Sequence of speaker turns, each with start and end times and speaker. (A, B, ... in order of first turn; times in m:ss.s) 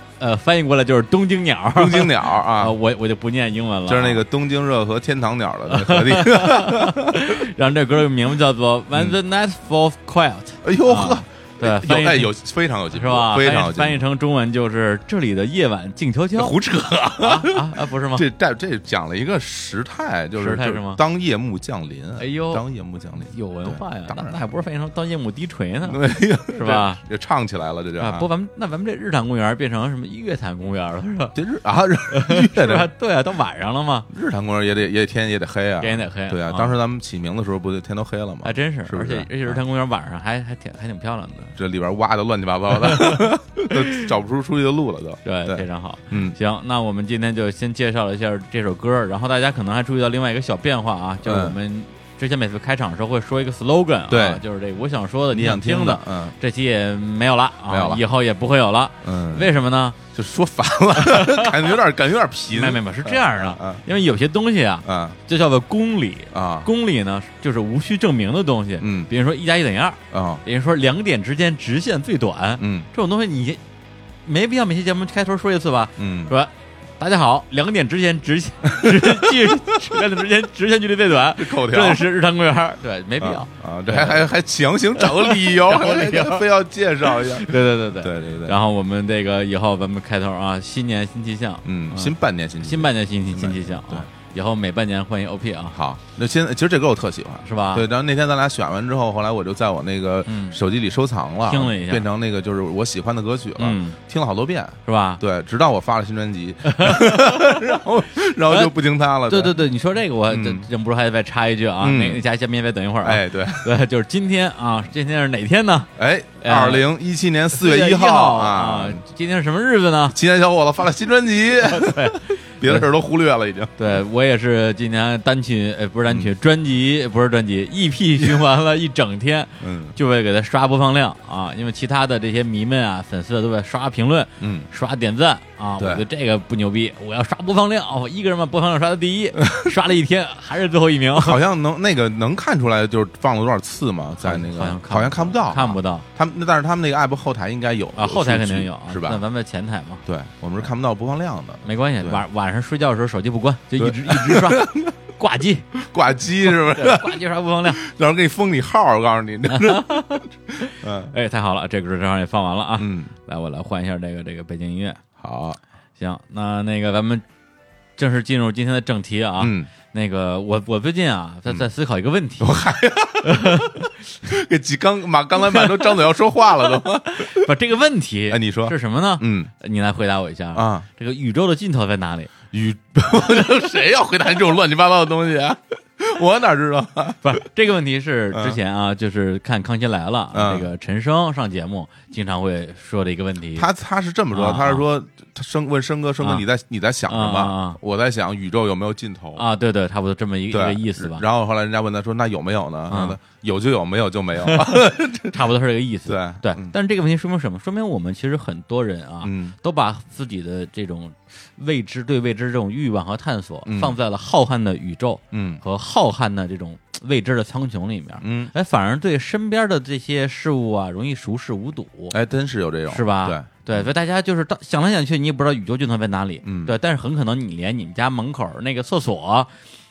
0:00.2-0:04.2 A
0:01.7-0:02.8 B
0:03.9-0:07.4 B
0:05.7-0:12.3 A
0:10.6-0:14.0 B
0:12.9-0:16.6 A
0:16.4-0:24.4 B
0:17.2-0:18.2 A
0:20.4-0:21.0 A
0:22.2-0:22.6 A
0:23.2-0:27.0 A
0:25.8-0:28.3 B
0:28.0-0:31.4 A
0:31.3-0:32.9 B
0:32.1-0:34.1 A
0:34.1-0:39.6 B
0:35.8-0:36.7 A
0:38.4-0:41.5 A
0:41.6-0:46.4 B
0:42.7-0:44.0 A
0:45.2-1:00.0 A
0:51.2-0:51.6 B
0:54.1-0:54.4 B
0:55.3-0:56.3 B
0:57.7-0:58.0 B
0:59.0-0:59.5 B
1:00.1-1:03.8 B
1:01.0-1:01.7 A
1:02.5-1:13.6 A
1:04.8-1:05.2 B
1:06.3-1:06.7 B
1:08.8-1:09.1 B
1:10.1-1:10.4 B
1:12.6-1:12.9 B
1:14.2-1:24.3 A
1:16.0-1:16.3 B
1:18.7-1:19.3 B
1:21.4-1:22.1 B
1:23.2-1:28.6 B
1:25.0-1:26.4 A
1:27.1-1:35.8 A
1:31.6-1:34.1 B
1:35.7-1:49.6 B
1:37.4-1:37.8 A
1:40.3-1:40.6 A
1:41.4-1:42.0 A
1:43.6-1:44.0 A
1:44.8-1:45.2 A
1:46.6-1:47.6 A
1:48.5-1:48.7 A
1:49.3-1:56.8 A
1:50.3-1:50.7 B
1:51.8-1:52.2 B
1:53.0-1:53.7 B
1:56.0-1:59.0 B
1:57.5-2:00.2 A
2:00.1-2:04.0 B
2:01.7-2:02.9 A
2:03.8-2:21.4 A
2:06.1-2:06.3 B
2:09.6-2:10.0 B
2:14.4-2:14.7 B
2:15.8-2:16.0 B
2:21.1-2:29.2 B
2:24.2-2:26.0 A
2:28.0-2:30.0 A
2:30.0-2:32.2 B
2:31.6-2:35.7 A
2:33.8-2:34.9 B
2:35.8-2:37.1 B
2:36.5-2:37.8 A
2:37.7-2:41.1 B
2:39.5-2:40.2 A
2:41.1-2:45.0 A
2:42.8-2:43.1 B
2:45.2-2:45.6 B
2:46.0-2:47.2 A
2:48.0-2:52.6 A
2:49.4-2:49.7 B
2:52.4-2:57.5 B
2:53.2-2:53.7 A
2:55.4-2:56.0 A
2:57.0-3:02.3 A
2:58.3-2:59.5 B
3:00.5-3:00.9 B
3:02.5-3:07.4 B
3:07.2-3:13.7 A
3:08.3-3:08.6 B
3:10.3-3:10.7 B
3:13.5-3:19.4 B
3:14.3-3:14.8 A
3:17.1-3:17.8 A
3:19.4-3:21.2 A
3:20.5-3:25.4 B
3:22.9-3:23.2 A
3:24.4-3:42.1 A
3:26.1-3:26.7 B
3:29.2-3:29.6 B
3:33.6-3:34.0 B
3:35.3-3:35.6 B
3:38.2-3:38.5 B
3:42.1-3:43.9 B
3:42.9-3:49.5 A
3:46.4-3:46.7 B